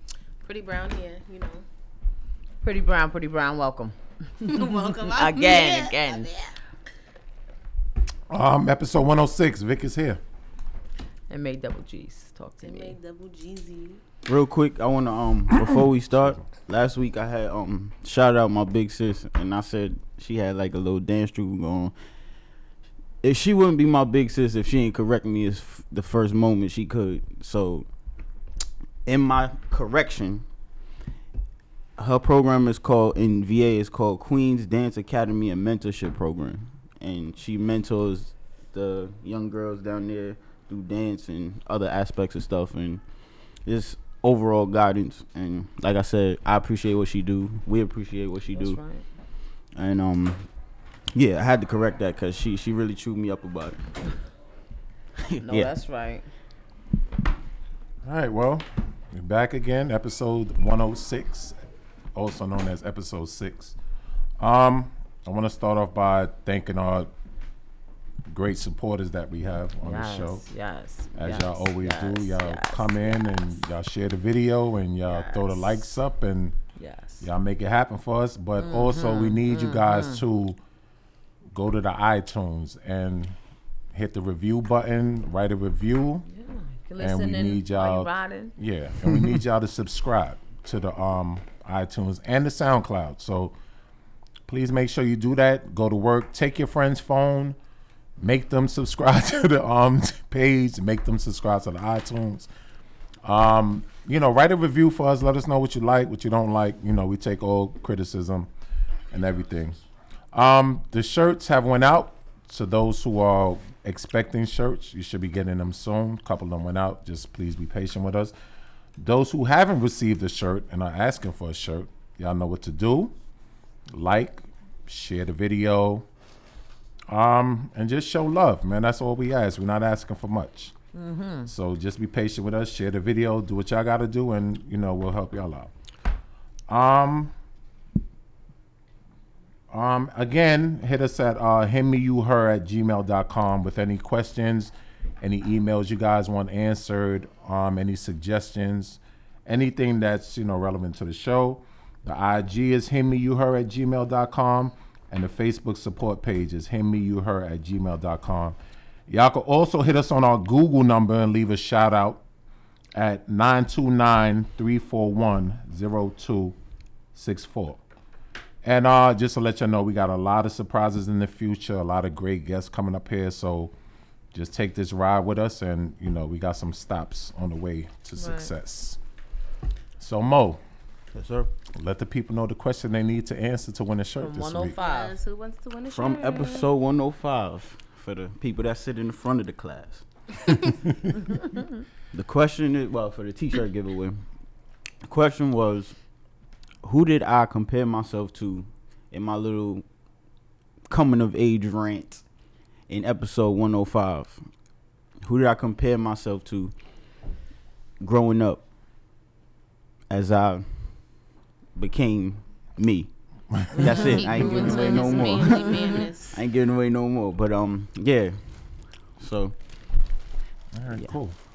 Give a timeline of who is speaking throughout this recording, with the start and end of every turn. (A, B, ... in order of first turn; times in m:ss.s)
0:00.4-0:01.6 A
0:02.6-0:06.3 B
0:04.4-0:06.5 A
0:08.3-0:10.2 C
0:11.3-0:13.0 B
0:12.6-0:14.0 A
0:14.2-0:21.9 D
0:23.2-0:27.9 D
0:29.0-0:30.4 D
0:32.0-0:43.0 D
0:43.6-0:48.8 D
0:48.5-0:49.0 B
0:49.7-0:50.5 D
0:51.1-0:53.8 D
0:55.3-0:55.7 D
0:55.4-0:56.3 B
0:58.0-1:01.6 C
1:02.1-1:03.8 C
1:04.4-1:07.1 C
1:08.3-1:10.4 C
1:09.8-1:13.3 B
1:11.2-1:16.6 C
1:15.1-1:15.7 B
1:16.8-1:17.3 B
1:17.2-1:20.6 C
1:18.6-1:20.2 B
1:21.5-1:23.4 C
1:23.9-1:26.2 C
1:26.3-1:28.5 B
1:27.0-1:33.5 C
1:34.4-1:37.6 C
1:38.2-1:42.5 C
1:43.2-1:48.5 C
1:49.1-1:49.8 C
1:50.3-1:58.3 C
1:59.0-2:03.1 C
2:03.9-2:06.0 C
2:07.1-2:10.7 C
2:10.9-2:11.5 B
2:11.5-2:15.7 C
2:16.7-2:17.3 C
2:19.7-2:38.6 C
2:39.1-2:42.2 C
2:42.9-2:46.6 C
2:47.1-2:47.8 C
2:48.6-2:53.7 C
2:54.3-2:59.0 C
2:58.2-2:58.5 B
3:00.0-3:00.6 C
3:01.1-3:01.5 D
3:01.7-3:04.8 C
3:04.2-3:05.2 B
3:04.8-3:06.7 A
3:05.9-3:10.0 D
3:12.1-3:14.2 D
3:15.0-3:16.0 D
3:16.8-3:19.8 D
3:20.9-3:22.2 D
3:22.9-3:24.4 D
3:25.2-3:26.7 D
3:28.0-3:28.6 D
3:30.1-3:31.0 D
3:31.8-3:33.1 D
3:33.5-3:33.8 C
3:33.7-3:39.5 D
3:33.7-3:36.0 B
3:33.8-3:36.4 A
3:40.7-3:41.4 C